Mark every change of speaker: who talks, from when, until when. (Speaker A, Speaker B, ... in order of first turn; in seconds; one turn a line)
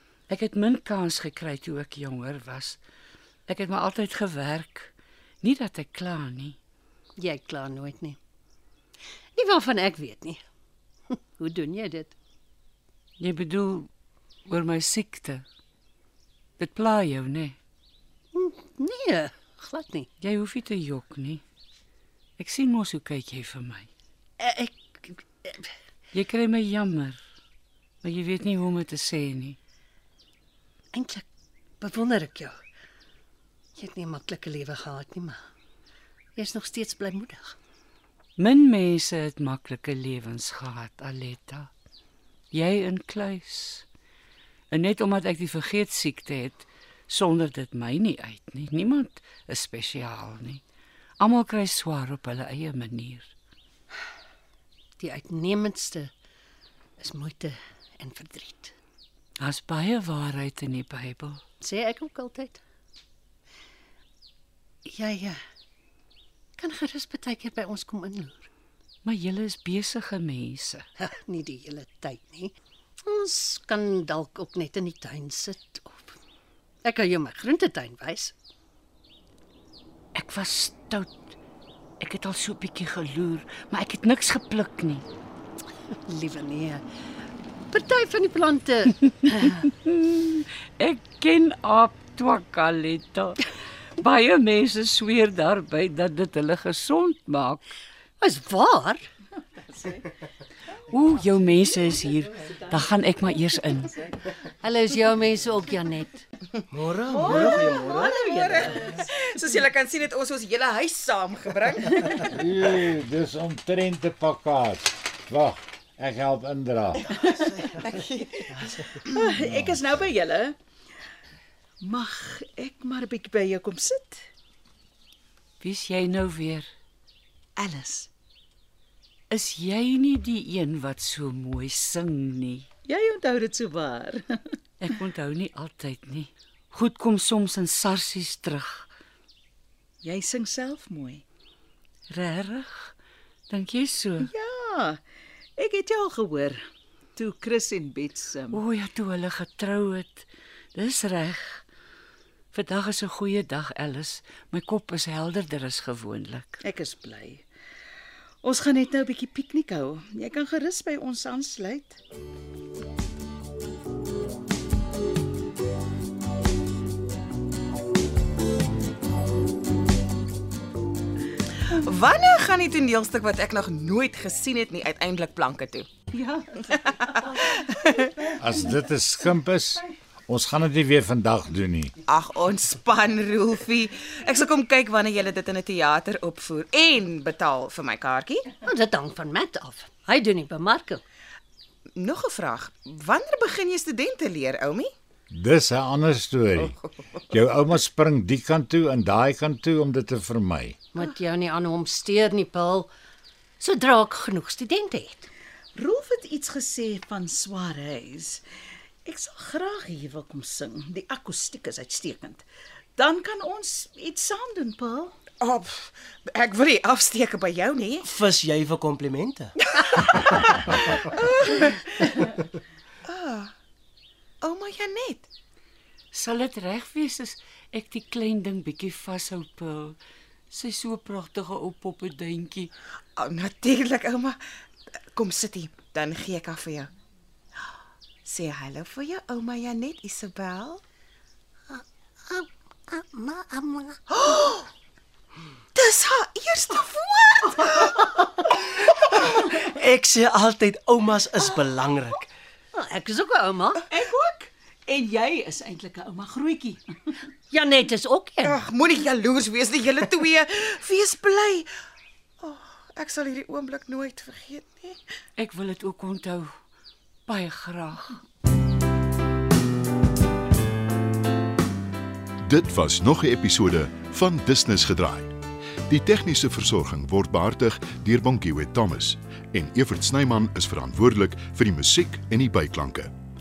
Speaker A: 0.3-2.8
Speaker A: 3.5-6.6
Speaker B: 7.2-8.2
Speaker B: 9.4-10.4
Speaker B: 11.4-12.2
Speaker A: 13.2-13.9
Speaker A: 14.5-15.5
Speaker A: 16.6-17.6
Speaker B: 18.3-20.1
Speaker A: 20.2-21.4
Speaker A: 22.4-23.9
Speaker B: 24.4-25.5
Speaker A: 26.1-27.2
Speaker A: 28.0-29.6
Speaker B: 30.9-31.2
Speaker B: 31.8-32.6
Speaker B: 33.8-35.4
Speaker B: 36.4-37.5
Speaker A: 38.4-41.7
Speaker A: 42.5-43.9
Speaker A: 44.7-50.6
Speaker A: 51.2-53.3
Speaker B: 55.0-56.1
Speaker B: 57.0-58.7
Speaker A: 59.4-61.4
Speaker B: 61.6-62.6
Speaker B: 64.9-65.4
Speaker B: 66.6-68.5
Speaker A: 69.0-70.8
Speaker B: 71.0-72.5
Speaker B: 73.1-76.2
Speaker B: 76.8-78.3
Speaker A: 80.2-81.1
Speaker A: 82.0-85.0
Speaker B: 86.1-86.8
Speaker B: 87.7-89.6
Speaker A: 89.3-93.4
Speaker A: 94.0-97.6
Speaker B: 98.2-99.0
Speaker C: 99.8-100.0
Speaker A: 100.9-104.1
Speaker B: 104.6-106.2
Speaker D: 106.7-108.2
Speaker E: 107.2-112.3
Speaker C: 107.2-108.8
Speaker F: 112.3-117.1
Speaker E: 117.8-118.5
Speaker C: 119.1-120.6
Speaker F: 119.4-119.8
Speaker C: 121.8-124.2
Speaker A: 125.6-126.7
Speaker C: 127.6-128.1
Speaker A: 129.3-132.7
Speaker C: 132.9-134.2
Speaker A: 134.8-138.8
Speaker C: 140.0-141.2
Speaker A: 142.1-142.9
Speaker A: 143.5-144.3
Speaker C: 144.2-145.0
Speaker C: 145.6-146.6
Speaker C: 147.2-148.6
Speaker A: 148.5-151.6
Speaker A: 152.5-156.6
Speaker C: 156.6-157.4
Speaker C: 158.4-162.0
Speaker E: 171.7-175.9
Speaker C: 176.1-176.8
Speaker E: 176.7-178.3
Speaker F: 178.4-181.9
Speaker E: 182.1-188.6
Speaker B: 188.6-191.0
Speaker E: 192.0-194.9
Speaker F: 195.3-196.8
Speaker F: 197.3-200.8
Speaker B: 200.9-202.9
Speaker B: 203.6-205.3
Speaker C: 205.8-208.4
Speaker C: 209.1-212.4
Speaker C: 213.0-215.1
Speaker E: 215.4-218.1
Speaker D: 218.0-219.5
Speaker E: 219.8-222.1
Speaker E: 223.1-223.5
Speaker E: 224.4-225.3
Speaker A: 226.1-230.0
Speaker A: 230.5-232.7
Speaker E: 233.2-234.4
Speaker E: 235.1-236.9
Speaker E: 238.2-240.8
Speaker B: 241.7-244.0
Speaker E: 244.1-244.7
Speaker E: 245.8-248.1
Speaker D: 249.3-252.3
Speaker B: 252.8-253.8
Speaker C: 253.9-256.8
Speaker B: 257.5-258.6
Speaker E: 258.4-261.7
Speaker E: 262.4-265.0
Speaker A: 265.4-266.5
Speaker A: 267.3-268.2
Speaker G: 272.4-275.3
Speaker G: 275.9-283.1